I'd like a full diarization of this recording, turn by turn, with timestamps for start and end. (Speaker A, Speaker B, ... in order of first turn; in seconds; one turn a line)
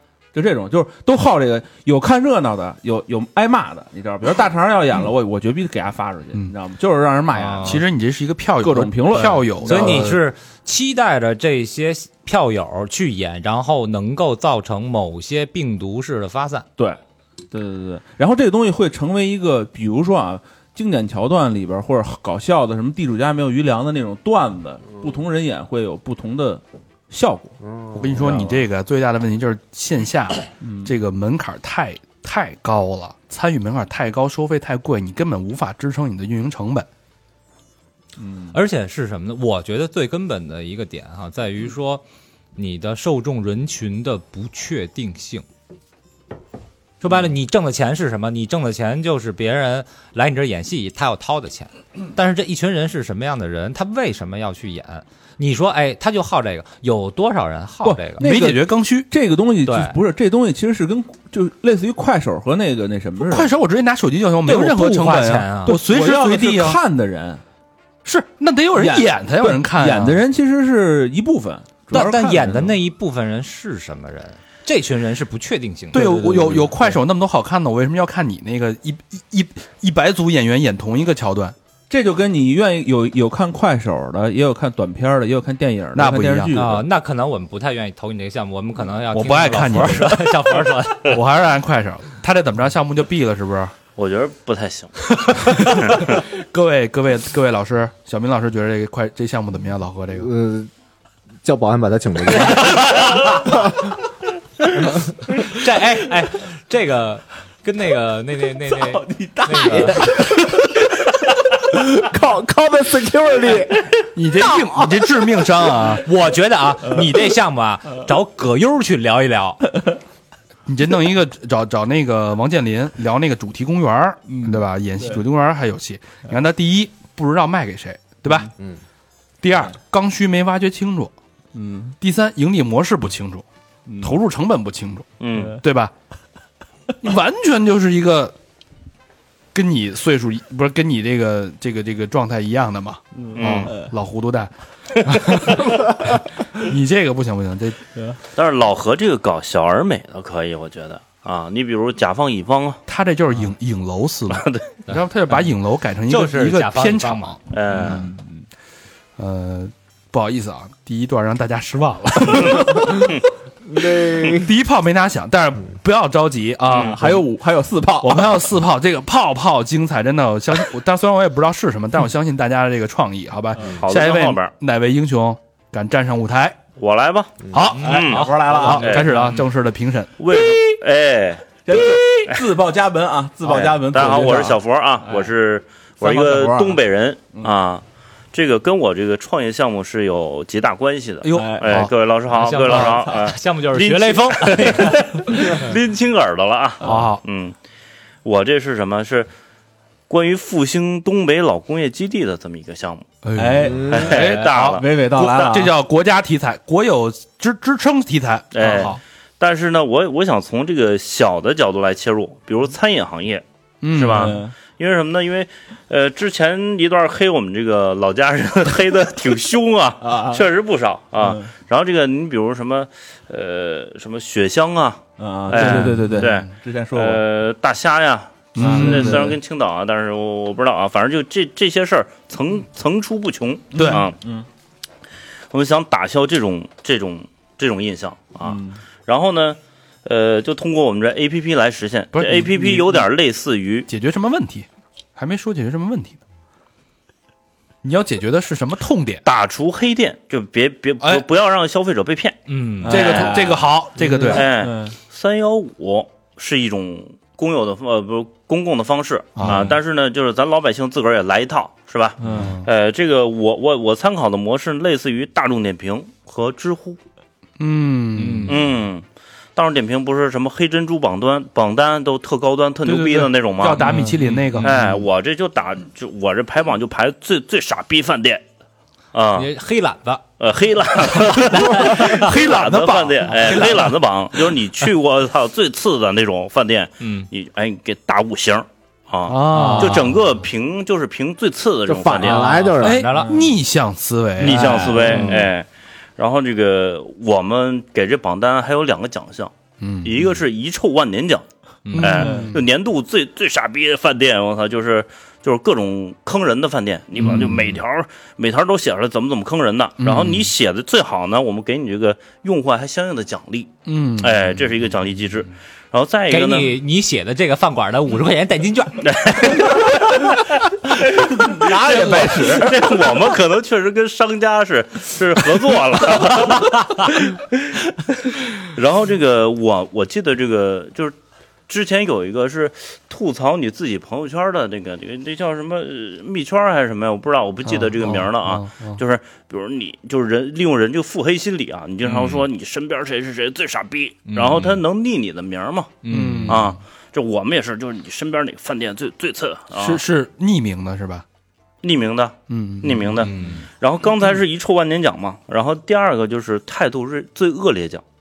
Speaker A: 0.3-7.8
Speaker B: 7.3-7.8
Speaker C: 7.6-10.2
Speaker A: 8.6-10.2
Speaker B: 9.6-16.7
Speaker A: 17.5-27.6
Speaker C: 27.9-36.9
Speaker A: 28.1-28.6
Speaker A: 30.6-30.9
Speaker A: 38.2-38.6
Speaker B: 38.5-42.0
Speaker B: 42.6-45.5
Speaker B: 47.0-58.2
Speaker A: 57.8-63.5
Speaker C: 58.2-59.1
Speaker B: 59.7-60.0
Speaker C: 63.3-66.8
Speaker B: 64.4-65.8
Speaker A: 65.7-67.4
Speaker C: 68.0-70.2
Speaker A: 68.7-72.8
Speaker C: 71.9-72.6
Speaker B: 71.9-76.1
Speaker A: 75.9-77.0
Speaker C: 75.9-81.5
Speaker A: 81.9-86.8
Speaker C: 85.9-86.6
Speaker B: 86.5-91.2
Speaker C: 89.1-93.7
Speaker D: 94.0-96.2
Speaker C: 95.3-100.3
Speaker E: 100.1-100.7
Speaker E: 101.4-103.5
Speaker B: 105.3-110.3
Speaker A: 108.7-110.4
Speaker E: 111.7-113.9
Speaker C: 114.2-116.1
Speaker B: 116.0-119.6
Speaker C: 120.7-128.5
Speaker A: 124.3-125.2
Speaker C: 129.4-131.1
Speaker A: 131.5-131.9
Speaker C: 132.0-133.4
Speaker A: 133.9-134.2
Speaker C: 134.0-135.9
Speaker D: 135.2-135.6
Speaker C: 137.0-138.3
Speaker C: 139.5-147.8
Speaker A: 143.2-143.9
Speaker D: 143.4-143.7
Speaker D: 148.3-152.8
Speaker C: 152.9-158.1
Speaker D: 154.3-154.7
Speaker B: 154.9-155.4
Speaker B: 156.1-157.4
Speaker D: 157.5-158.1
Speaker A: 157.7-158.4
Speaker C: 159.2-163.2
Speaker E: 163.7-164.5
Speaker C: 164.2-167.2
Speaker D: 166.7-167.0
Speaker A: 166.8-168.5
Speaker C: 168.0-176.6
Speaker A: 173.6-173.8
Speaker D: 173.7-174.5
Speaker D: 176.8-179.1
Speaker C: 177.5-180.1
Speaker B: 177.7-179.4
Speaker A: 177.8-179.0
Speaker D: 180.2-181.5
Speaker A: 181.7-185.3
Speaker D: 183.4-197.6
Speaker A: 186.0-187.6
Speaker C: 191.2-191.9
Speaker A: 191.3-191.9
Speaker B: 192.3-195.7
Speaker A: 192.7-193.3
Speaker C: 196.8-197.2
Speaker D: 198.2-199.3
Speaker D: 200.1-203.1
Speaker C: 203.2-209.0
Speaker A: 203.4-205.8
Speaker D: 203.9-204.8
Speaker D: 208.5-234.2
Speaker C: 213.8-214.4
Speaker A: 214.1-214.6
Speaker A: 220.0-220.5
Speaker A: 221.2-221.5
Speaker A: 225.2-227.2
Speaker C: 225.5-226.4
Speaker C: 228.6-229.3
Speaker A: 228.6-229.4
Speaker A: 233.7-234.5
Speaker C: 233.7-234.0
Speaker D: 235.5-243.9
Speaker A: 238.4-238.8
Speaker C: 242.1-243.1
Speaker C: 243.9-246.2
Speaker C: 247.8-249.2
Speaker D: 249.2-252.4
Speaker B: 252.5-253.0
Speaker A: 252.8-255.0
Speaker C: 252.9-254.4
Speaker D: 254.3-267.0
Speaker C: 259.4-259.8
Speaker A: 259.5-259.7
Speaker A: 262.2-262.5
Speaker C: 262.3-262.7
Speaker C: 267.6-268.7
Speaker B: 268.1-268.7
Speaker D: 268.5-269.1
Speaker D: 269.6-273.8
Speaker C: 272.9-275.0
Speaker B: 273.8-274.8
Speaker D: 274.6-278.4
Speaker D: 279.1-279.5
Speaker B: 279.4-280.2
Speaker D: 280.4-292.5
Speaker C: 281.1-284.0
Speaker B: 281.5-282.3
Speaker B: 287.0-287.3
Speaker C: 289.3-290.2
Speaker B: 289.5-290.1
Speaker E: 291.9-293.1
Speaker B: 292.2-293.4
Speaker C: 292.8-295.4
Speaker A: 293.1-293.4
Speaker A: 294.4-295.4
Speaker D: 294.4-301.5
Speaker C: 299.8-300.4
Speaker B: 301.9-302.3
Speaker C: 301.9-302.6
Speaker D: 302.0-316.8
Speaker A: 302.2-302.5
Speaker C: 307.2-307.8
Speaker C: 310.0-310.5
Speaker C: 313.9-314.6
Speaker B: 316.3-319.7
Speaker D: 319.0-320.2
Speaker A: 321.1-323.1
Speaker D: 321.1-327.5
Speaker D: 328.6-331.2
Speaker D: 331.7-350.0
Speaker C: 337.7-339.0
Speaker C: 342.0-342.4
Speaker B: 344.3-344.8
Speaker B: 346.0-346.6
Speaker C: 346.1-346.8
Speaker C: 349.7-351.2
Speaker D: 351.8-358.0
Speaker C: 352.5-353.3
Speaker B: 353.2-353.6